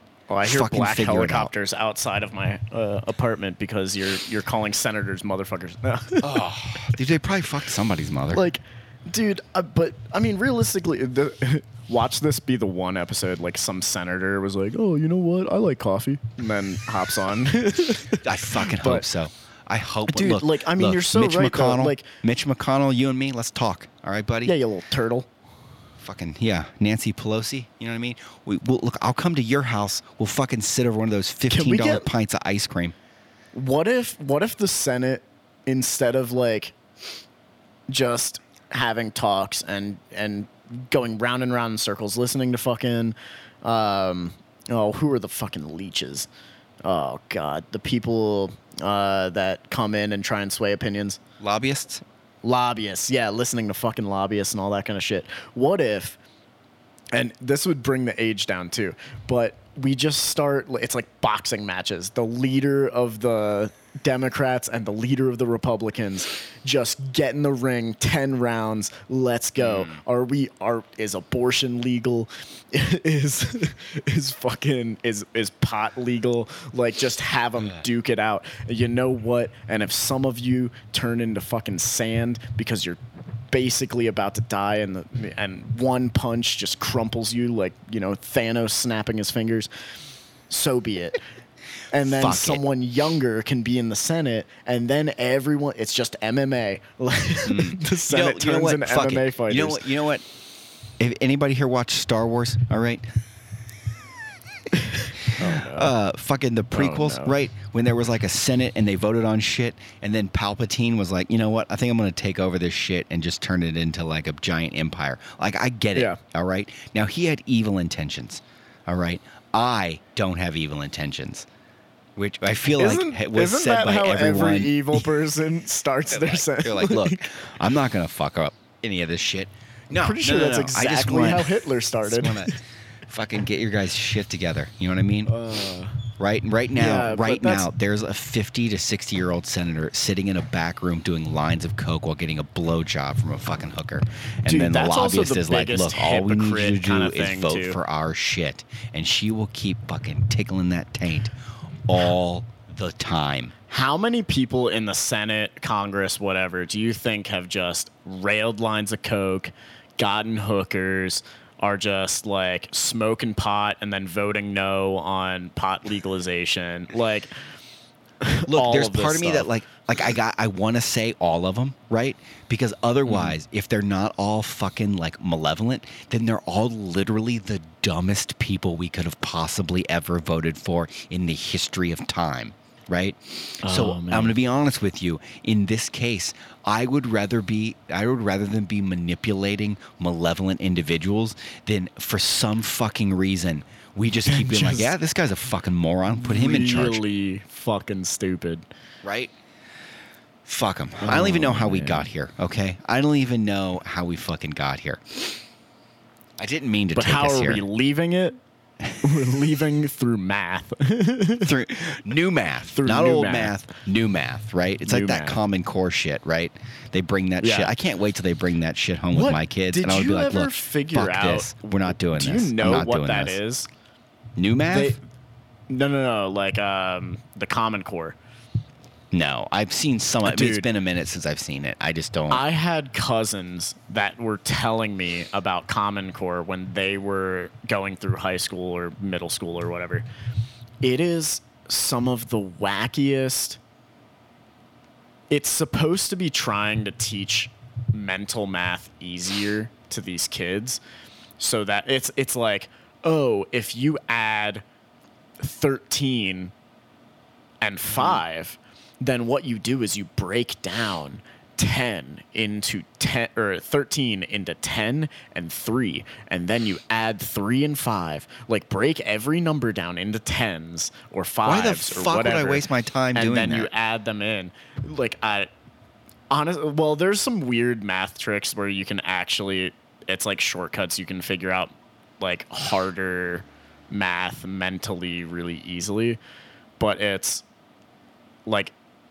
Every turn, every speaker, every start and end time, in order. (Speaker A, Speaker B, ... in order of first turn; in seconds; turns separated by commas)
Speaker A: 0.3-6.9, Speaker B: 0.4-1.5, Speaker B: 6.2-8.4, Speaker A: 8.3-19.0, Speaker B: 18.2-24.5, Speaker A: 20.1-22.0, Speaker A: 24.4-25.3, Speaker B: 26.0-32.9, Speaker A: 31.5-32.1, Speaker A: 33.5-36.7, Speaker A: 37.9-46.3, Speaker A: 46.8-51.2, Speaker B: 51.4-52.0, Speaker A: 52.4-56.2, Speaker A: 57.1-83.0, Speaker B: 69.6-70.0, Speaker A: 83.5-89.7, Speaker A: 90.5-91.2, Speaker A: 91.9-99.8, Speaker B: 92.0-92.6, Speaker B: 97.5-100.2, Speaker B: 101.0-103.0, Speaker A: 104.8-105.9, Speaker B: 105.3-121.5, Speaker A: 106.7-107.3, Speaker B: 122.2-125.0, Speaker A: 122.8-127.3, Speaker B: 126.1-135.3, Speaker A: 129.9-132.5, Speaker A: 135.3-136.0, Speaker B: 136.2-151.3, Speaker A: 136.8-137.7, Speaker A: 144.4-147.8, Speaker B: 151.8-153.5, Speaker A: 153.7-167.3, Speaker A: 168.2-169.5, Speaker B: 168.5-197.0, Speaker A: 173.1-173.3, Speaker A: 183.6-184.3, Speaker A: 194.2-194.9, Speaker A: 196.1-198.6, Speaker B: 199.0-199.3, Speaker B: 200.4-205.4, Speaker A: 201.0-202.1, Speaker B: 206.4-207.6, Speaker A: 206.9-208.4, Speaker A: 209.0-211.5, Speaker B: 211.4-223.4, Speaker A: 212.7-213.5, Speaker A: 214.9-215.4, Speaker A: 217.4-217.7, Speaker A: 219.1-223.7, Speaker B: 224.4-224.9, Speaker A: 224.7-225.0, Speaker A: 225.7-228.2, Speaker B: 229.1-232.4, Speaker A: 230.2-230.7, Speaker A: 232.3-240.1, Speaker A: 240.8-243.6, Speaker A: 245.3-250.8, Speaker A: 251.4-254.6, Speaker A: 255.4-256.5, Speaker A: 257.6-275.5, Speaker B: 271.4-273.7, Speaker A: 276.3-286.2, Speaker A: 286.8-287.4, Speaker A: 288.4-288.7